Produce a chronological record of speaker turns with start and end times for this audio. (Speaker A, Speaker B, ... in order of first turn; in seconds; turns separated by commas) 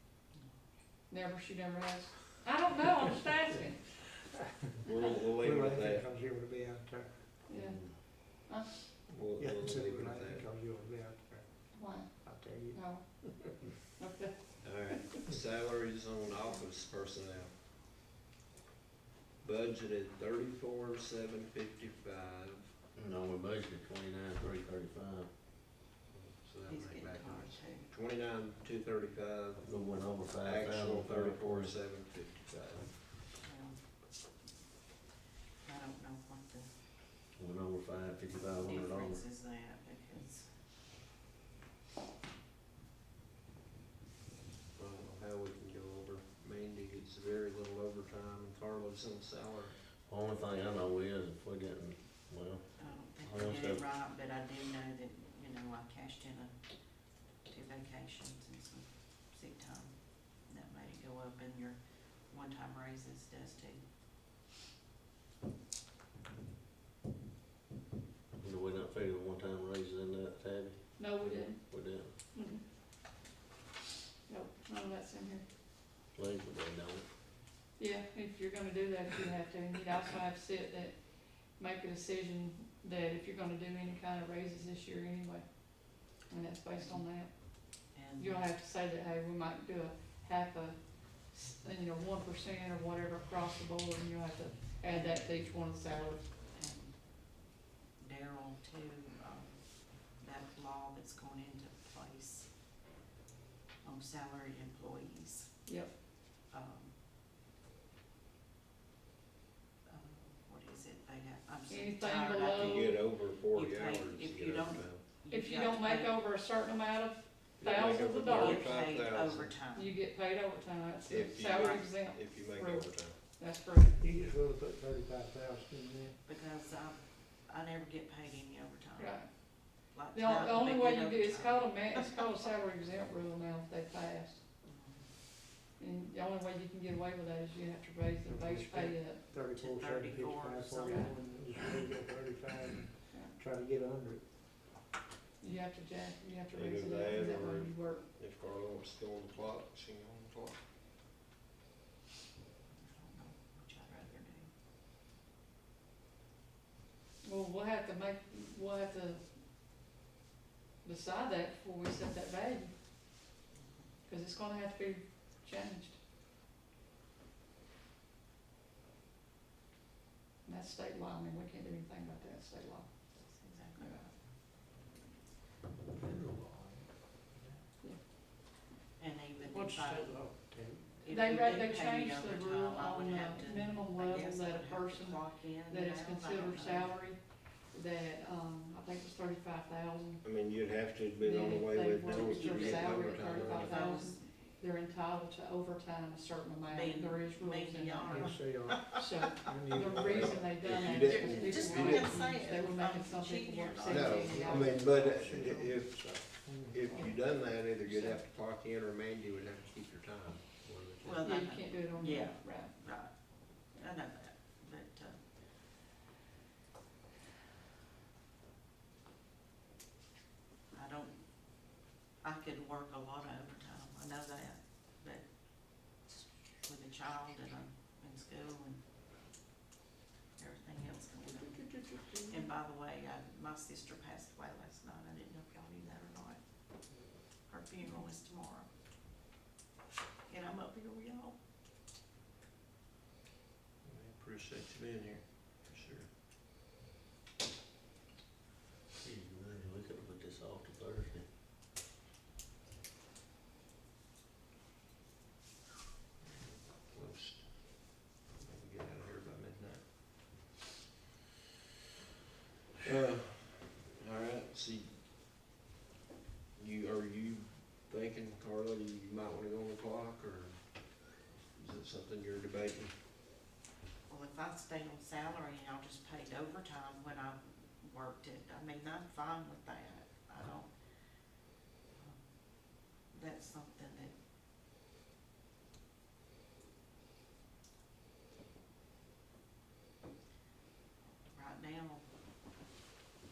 Speaker A: 1.1-4.0, Speaker B: 4.8-6.0, Speaker C: 5.4-7.4, Speaker A: 7.5-8.7, Speaker D: 7.5-7.9, Speaker B: 9.1-10.4, Speaker C: 9.3-13.6, Speaker A: 11.7-15.1, Speaker D: 14.7-15.2, Speaker B: 15.3-17.5, Speaker B: 19.4-22.7, Speaker D: 22.9-25.3, Speaker B: 26.1-33.1, Speaker E: 26.7-27.9, Speaker D: 29.6-31.8, Speaker E: 33.4-33.8, Speaker E: 35.6-36.7, Speaker D: 37.4-39.2, Speaker E: 38.6-40.5, Speaker B: 44.8-49.8, Speaker D: 50.0-53.8, Speaker E: 52.8-56.7, Speaker E: 57.4-63.8, Speaker D: 68.4-72.1, Speaker A: 71.0-72.6, Speaker A: 74.3-75.4, Speaker D: 76.1-77.1, Speaker A: 77.8-96.2, Speaker E: 86.8-87.2, Speaker E: 87.9-88.5, Speaker E: 94.8-95.3, Speaker E: 96.5-102.5, Speaker E: 103.8-105.6, Speaker A: 105.6-105.9, Speaker E: 106.5-106.9, Speaker E: 109.9-116.1, Speaker A: 111.7-113.0, Speaker B: 112.5-115.0, Speaker A: 115.3-118.8, Speaker B: 117.6-119.5, Speaker E: 118.3-120.0, Speaker A: 119.7-124.0, Speaker B: 121.1-123.2, Speaker E: 121.4-121.8, Speaker C: 124.0-126.2, Speaker E: 126.2-132.0, Speaker A: 129.0-129.3, Speaker A: 129.8-134.4, Speaker E: 134.6-135.1, Speaker A: 135.8-139.2, Speaker C: 138.2-144.2, Speaker E: 139.5-141.8, Speaker A: 140.8-141.1, Speaker A: 143.1-143.3, Speaker A: 145.4-148.1, Speaker B: 146.5-150.6, Speaker E: 152.8-154.5, Speaker A: 157.2-159.2, Speaker A: 160.8-162.7, Speaker A: 164.1-166.0, Speaker A: 170.4-172.9, Speaker E: 173.2-174.1, Speaker A: 173.8-174.1, Speaker C: 175.9-177.6, Speaker E: 179.0-180.2, Speaker C: 179.5-180.9, Speaker E: 181.0-186.9, Speaker A: 181.1-190.2, Speaker B: 190.2-193.9, Speaker A: 191.2-204.8, Speaker E: 192.2-194.2, Speaker E: 196.7-199.3, Speaker C: 198.1-200.5, Speaker B: 199.9-202.2, Speaker E: 200.6-204.7, Speaker B: 203.9-211.2, Speaker C: 204.2-206.9, Speaker A: 206.9-208.2, Speaker E: 211.0-215.2, Speaker A: 211.2-212.8, Speaker E: 220.7-226.1, Speaker E: 226.6-228.8, Speaker E: 230.4-231.7, Speaker C: 231.5-232.3, Speaker E: 232.3-236.4, Speaker E: 237.5-238.7, Speaker E: 240.3-241.3, Speaker B: 243.8-246.1, Speaker D: 249.0-251.2, Speaker B: 256.2-259.8, Speaker B: 262.8-265.1, Speaker B: 266.6-272.9, Speaker E: 274.1-280.7, Speaker E: 281.9-284.1, Speaker E: 291.2-292.0